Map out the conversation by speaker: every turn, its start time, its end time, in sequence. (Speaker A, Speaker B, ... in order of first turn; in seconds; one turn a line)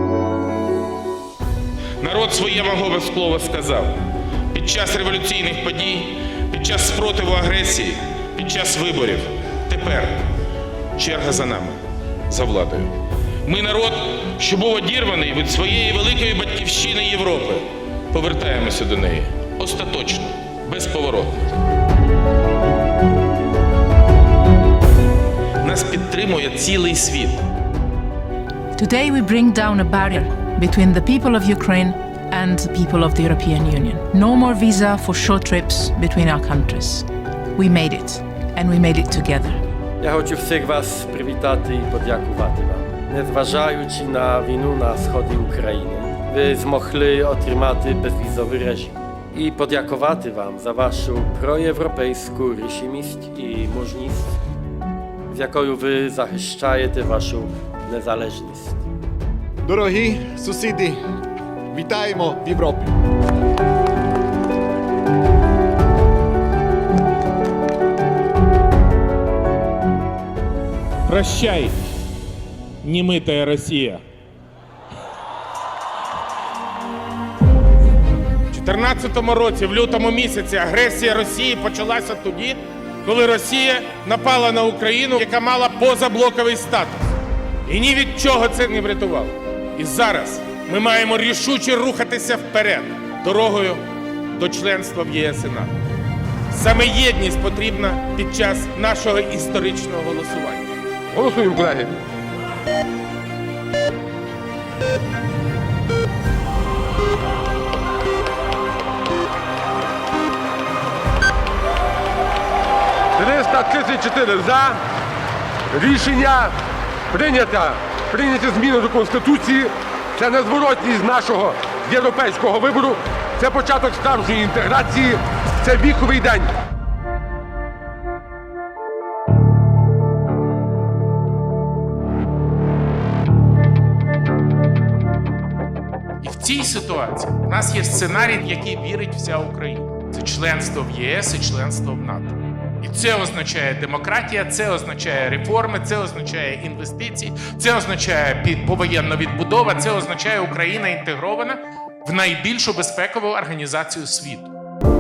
Speaker A: 2.0-4.0
Speaker A: 4.5-10.2
Speaker A: 11.0-11.8
Speaker A: 12.3-21.6
Speaker A: 25.6-27.4
Speaker B: 28.8-39.6
Speaker C: 40.0-54.4
Speaker C: 55.3-58.9
Speaker D: 59.6-61.0
Speaker D: 61.7-63.0
Speaker A: 71.1-71.8
Speaker A: 72.8-74.0
Speaker A: 78.5-87.0
Speaker A: 87.7-93.8
Speaker A: 94.3-95.7
Speaker A: 96.5-100.7
Speaker E: 101.1-102.0
Speaker E: 113.2-114.8
Speaker E: 115.7-116.6
Speaker E: 117.1-126.5
Speaker A: 136.2-154.5